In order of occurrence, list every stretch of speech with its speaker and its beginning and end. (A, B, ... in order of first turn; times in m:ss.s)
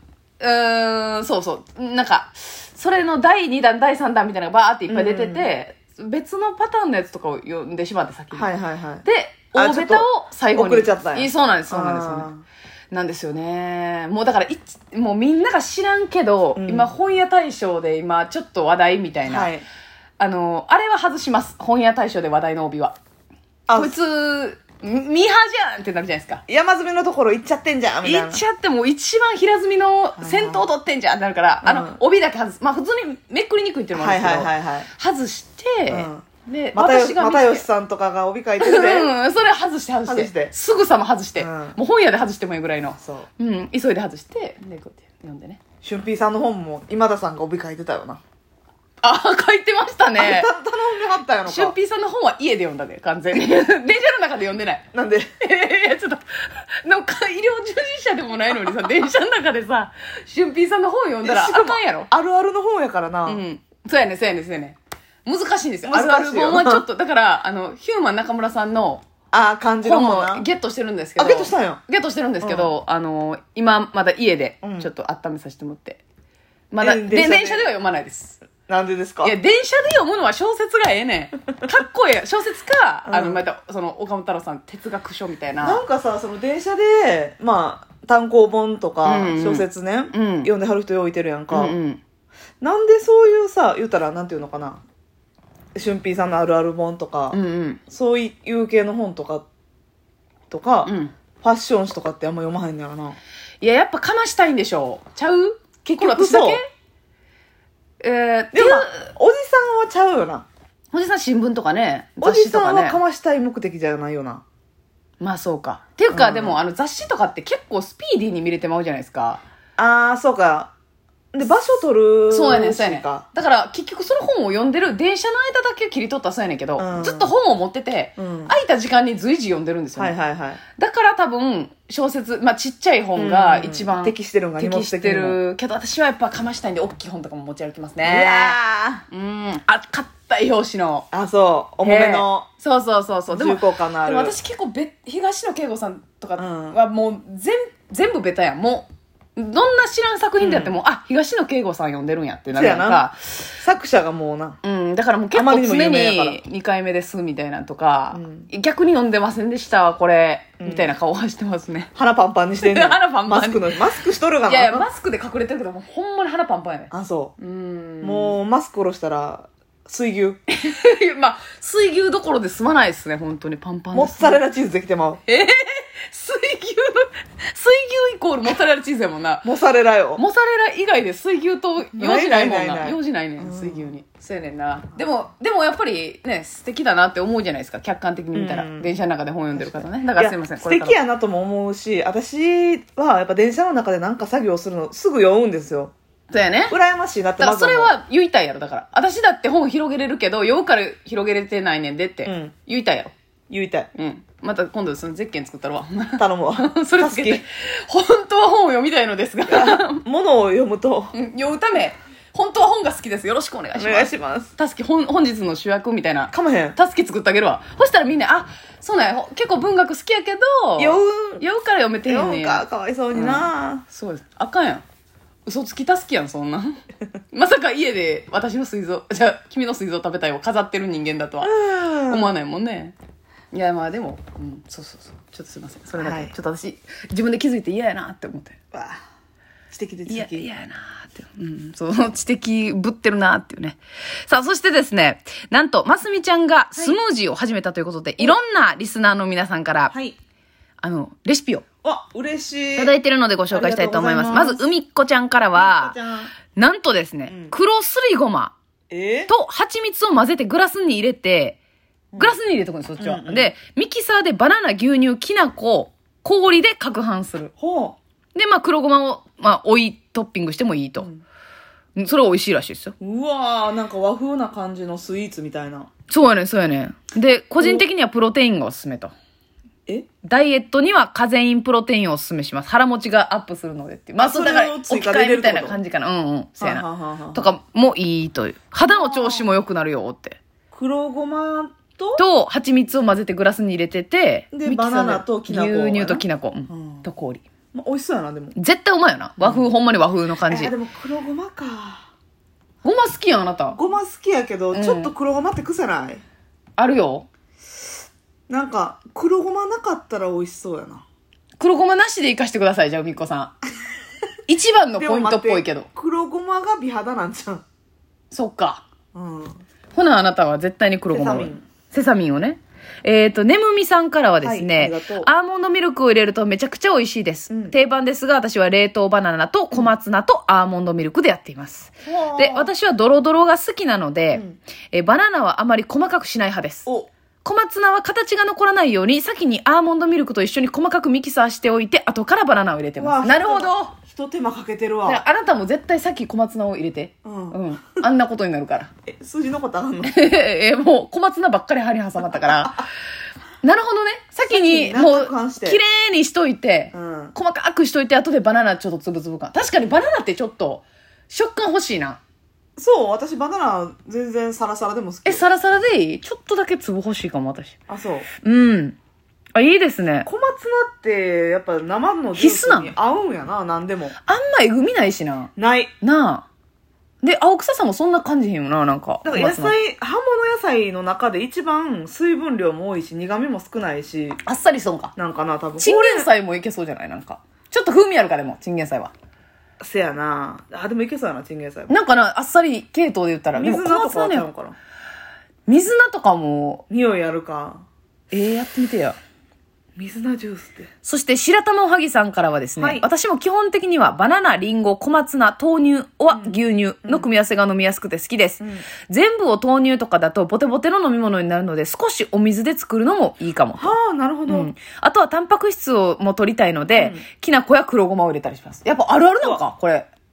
0:00.4-0:08.5 A
0:04.9-0:05.5 B
0:08.3-0:12.4 B
0:09.0-0:12.3 A
0:12.9-0:19.5 A
0:16.6-0:16.9 B
0:19.3-0:19.6 B
0:20.2-0:23.0 A
0:23.7-0:24.0 B
0:23.7-0:26.4 A
0:26.5-0:28.4 B
0:28.0-0:37.6 A
0:30.2-0:30.6 B
0:31.6-0:32.0 B
0:33.9-0:34.9 B
0:35.9-0:39.1 B
0:38.6-0:45.6 A
0:40.1-0:40.5 B
0:41.4-0:41.8 B
0:43.0-0:43.3 B
0:45.8-0:48.2 B
0:49.0-0:50.5 A
0:50.2-0:51.7 B
0:51.4-0:54.8 A
0:54.9-0:55.3 B
0:55.4-1:02.1 A
1:01.2-1:03.4 B
1:03.2-1:09.0 A
1:05.8-1:06.8 B
1:09.3-1:10.4 B
1:09.8-1:16.0 A
1:11.2-1:11.8 B
1:12.4-1:12.7 B
1:14.6-1:14.9 B
1:16.7-1:18.4 A
1:16.8-1:17.7 B
1:18.7-1:19.3 B
1:19.2-1:25.8 A
1:23.1-1:23.4 B
1:25.6-1:31.8 B
1:29.0-1:30.5 A
1:31.5-1:32.0 A
1:32.6-1:34.8 B
1:35.7-1:37.4 B
1:37.3-1:37.8 A
1:37.9-1:39.4 B
1:40.5-1:43.2 B
1:40.8-1:41.1 A
1:43.6-1:46.6 A
1:45.8-1:46.6 B
1:48.0-1:49.1 A
1:48.5-1:50.4 B
1:50.9-1:53.0 A
1:52.2-1:54.4 B
1:55.2-1:59.4 A
1:56.1-1:56.6 B
1:59.8-2:00.7 B
2:01.3-2:03.2 B
2:02.3-2:10.1 A
2:06.8-2:07.3 B
2:08.2-2:08.5 B
2:10.0-2:10.6 B
2:10.8-2:18.6 A
2:13.1-2:15.4 B
2:18.0-2:19.0 B
2:19.1-2:21.1 A
2:21.1-2:22.5 B
2:21.8-2:33.4 A
2:23.3-2:24.3 B
2:26.4-2:26.8 B
2:30.4-2:30.8 B
2:32.5-2:34.6 B
2:34.6-2:41.9 A
2:35.3-2:36.4 B
2:38.1-2:38.5 B
2:40.6-2:40.9 B
2:42.0-2:44.9 B
2:42.6-2:43.8 A
2:44.4-2:48.4 A
2:46.9-2:47.3 B
2:48.0-2:50.4 B
2:50.5-2:54.4 A
2:53.9-2:55.2 B
2:55.3-2:59.5 A
2:59.4-3:00.2 B
3:00.2-3:11.0 A
3:01.9-3:03.9 B
3:08.3-3:08.9 B
3:09.6-3:15.9 B
3:16.3-3:16.8 A
3:16.7-3:17.9 B
3:17.4-3:23.1 A
3:22.2-3:22.5 B
3:23.5-3:23.9 B
3:23.9-3:30.0 A
3:26.2-3:27.4 B
3:29.5-3:31.1 B
3:31.1-3:44.8 A
3:33.7-3:34.5 B
3:36.3-3:36.8 B
3:40.8-3:41.4 B
3:42.0-3:43.8 B
3:45.4-3:52.9 A
3:51.4-3:52.3 B
3:53.5-3:58.6 A
3:56.0-3:56.3 B
3:58.7-3:59.0 B
3:59.7-4:00.5 B
4:00.1-4:09.9 A
4:09.9-4:10.2 B
4:10.8-4:11.6 A
4:11.8-4:12.9 B
4:12.8-4:16.0 A
4:13.5-4:14.6 B
4:15.5-4:16.3 B
4:16.5-4:18.5 A
4:17.3-4:17.5 B
4:18.9-4:19.3 B
4:19.3-4:21.6 A
4:22.2-4:27.5 A
4:23.0-4:23.5 B
4:27.6-4:28.0 B
4:28.3-4:31.1 A
4:32.0-4:32.9 A
4:33.0-4:35.9 B
4:36.1-4:39.1 A
4:37.6-4:37.8 B
4:40.2-4:50.4 A
4:44.2-4:45.8 B
4:46.6-4:47.5 B
4:48.9-4:49.6 B
4:50.7-4:52.2 B
4:52.2-4:57.4 A
4:54.5-4:57.0 B
4:57.7-4:58.5 B
4:58.5-5:00.7 A
4:59.4-4:59.7 B
5:00.5-5:02.1 B
5:02.8-5:03.8 A
5:03.7-5:06.2 B
5:04.7-5:05.1 A
5:06.8-5:07.3 A
5:08.5-5:11.0 B
5:11.6-5:13.6 A
5:14.5-5:15.9 A
5:15.0-5:17.6 B
5:18.3-5:18.8 A
5:19.1-5:19.6 B
5:19.9-5:36.9 A
5:21.1-5:21.6 B
5:24.4-5:25.3 B
5:27.5-5:27.7 B
5:32.0-5:32.7 B
5:34.3-5:34.6 B
5:37.4-5:44.0 A
5:43.0-5:45.2 B
5:45.0-5:48.9 A
5:47.2-5:48.0 B
5:49.1-5:50.2 B
5:50.0-5:52.9 A
5:52.2-5:52.9 B
5:53.6-6:02.2 A
5:54.5-5:55.8 B
5:56.9-5:57.3 B
6:02.8-6:05.4 B
6:05.2-6:07.7 A
6:07.9-6:08.3 B
6:08.4-6:09.0 A
6:09.5-6:10.3 A
6:10.2-6:14.1 B
6:12.4-6:12.9 A
6:14.2-6:16.4 A
6:15.6-6:15.9 B
6:17.2-6:19.8 A
6:19.2-6:24.4 B
6:24.4-6:25.1 A
6:25.2-6:26.3 B
6:25.8-6:29.1 A
6:29.8-6:31.9 B
6:31.9-6:34.5 A
6:33.6-6:34.8 B
6:35.7-6:36.8 A
6:36.9-6:37.8 B
6:38.3-6:39.2 A
6:40.0-6:40.9 B
6:41.0-6:53.9 A
6:42.8-6:43.0 B
6:46.3-6:47.2 B
6:48.6-6:48.8 B
6:53.8-6:54.7 B
6:54.5-7:00.0 A
6:56.9-6:57.2 B